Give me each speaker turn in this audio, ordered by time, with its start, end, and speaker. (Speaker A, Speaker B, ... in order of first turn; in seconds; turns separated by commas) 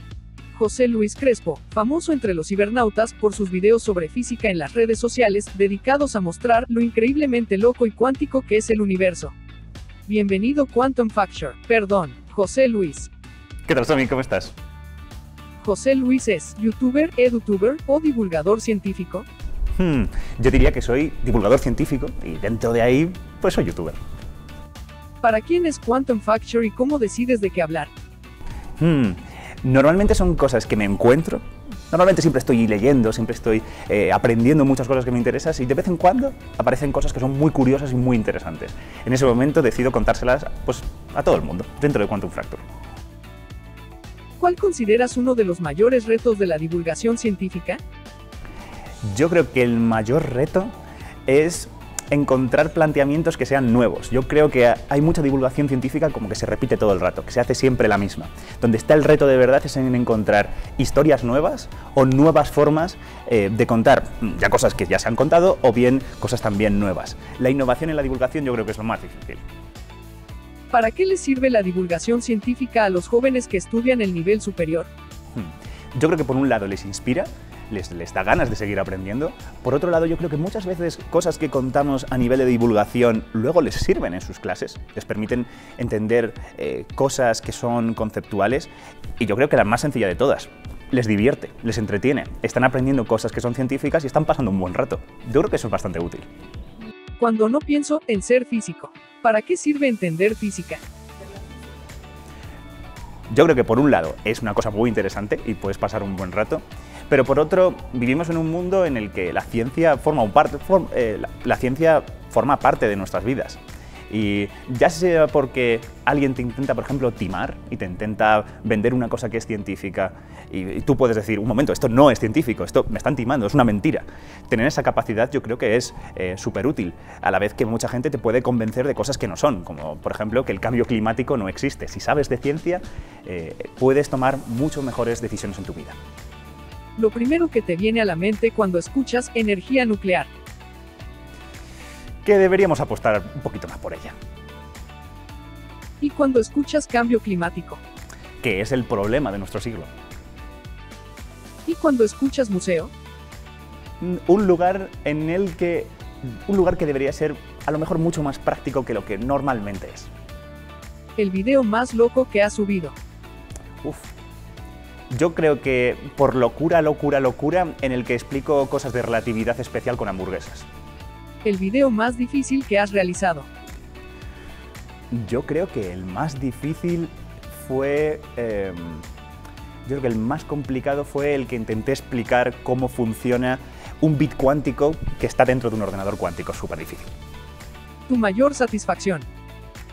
Speaker A: 0.5-9.3, Speaker A: 10.1-13.1, Speaker B: 13.7-14.5, Speaker A: 15.6-19.3, Speaker B: 19.8-24.0, Speaker A: 25.2-27.9, Speaker B: 28.8-42.6, Speaker A: 44.4-47.8, Speaker B: 49.0-50.7, Speaker B: 51.3-69.4, Speaker A: 70.7-74.9, Speaker B: 75.3-96.3, Speaker A: 97.2-100.8, Speaker B: 103.3-136.0, Speaker A: 137.0-140.3, Speaker B: 142.2-144.2, Speaker A: 146.0-147.8, Speaker B: 148.4-149.9, Speaker A: 151.7-152.9, Speaker B: 154.0-160.1, Speaker A: 161.2-163.0, Speaker B: 163.8-164.1, Speaker B: 165.1-170.7, Speaker A: 171.4-173.5, Speaker B: 175.1-179.1, Speaker B: 179.9-187.1, Speaker A: 188.1-189.3